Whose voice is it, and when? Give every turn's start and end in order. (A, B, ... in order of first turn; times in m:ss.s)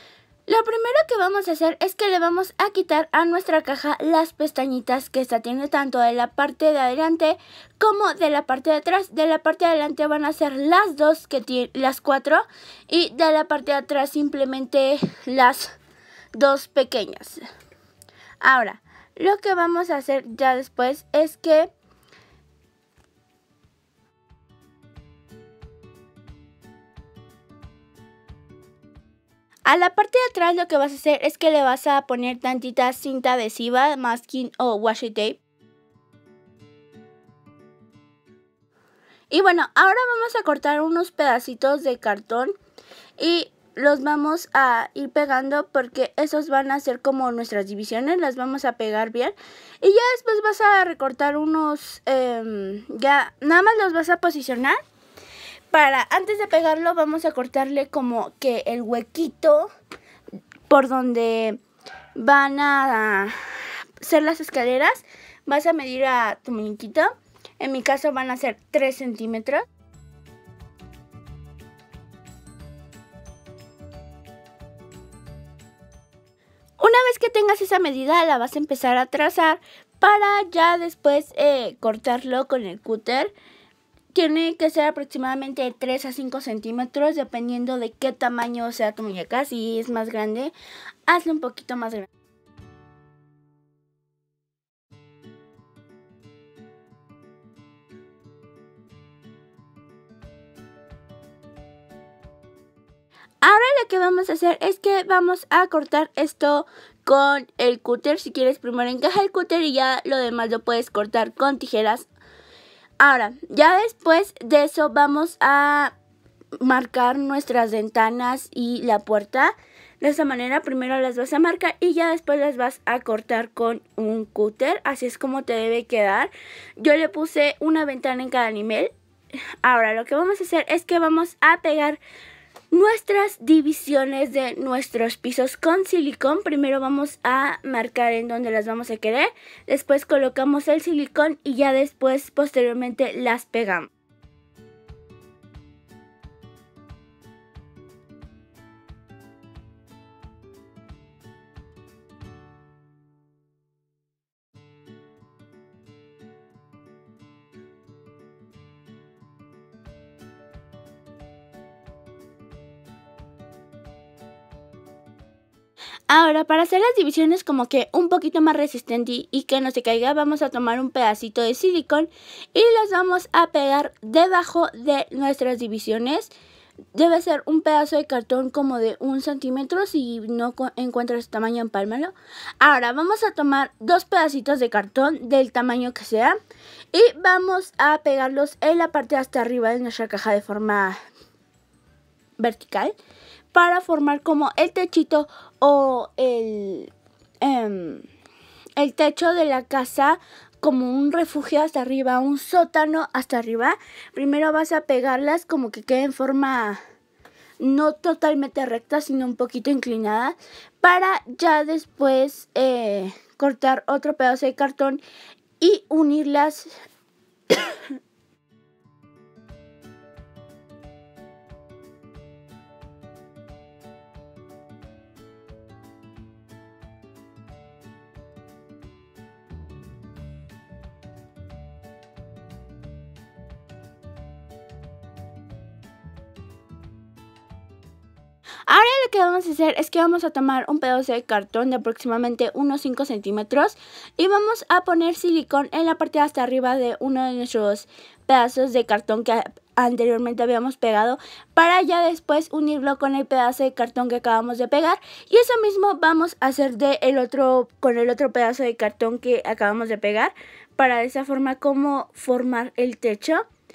0:00.5-0:15.7 A
0:16.3-0:17.4 A
0:18.4-0:21.7 A
0:29.6-0:35.4 A
0:39.3-0:42.5 A
0:43.2-0:54.8 A
0:55.7-0:59.7 A
1:00.7-1:01.6 A
1:02.1-1:09.6 A
1:16.8-1:23.3 A
1:24.1-1:30.5 A
1:31.1-1:32.1 A
1:43.4-1:52.1 A
1:53.0-1:55.9 A
1:56.6-2:08.9 A
2:09.6-2:12.0 A
2:12.7-2:23.9 A
2:46.1-2:56.3 A
2:56.9-3:06.4 A
3:06.9-3:11.0 A
3:12.4-3:13.0 A
3:13.5-3:18.0 A
3:18.8-3:26.8 A
3:27.6-3:35.0 A
3:35.6-3:36.7 A
3:37.5-3:37.8 A
3:58.7-4:23.4 A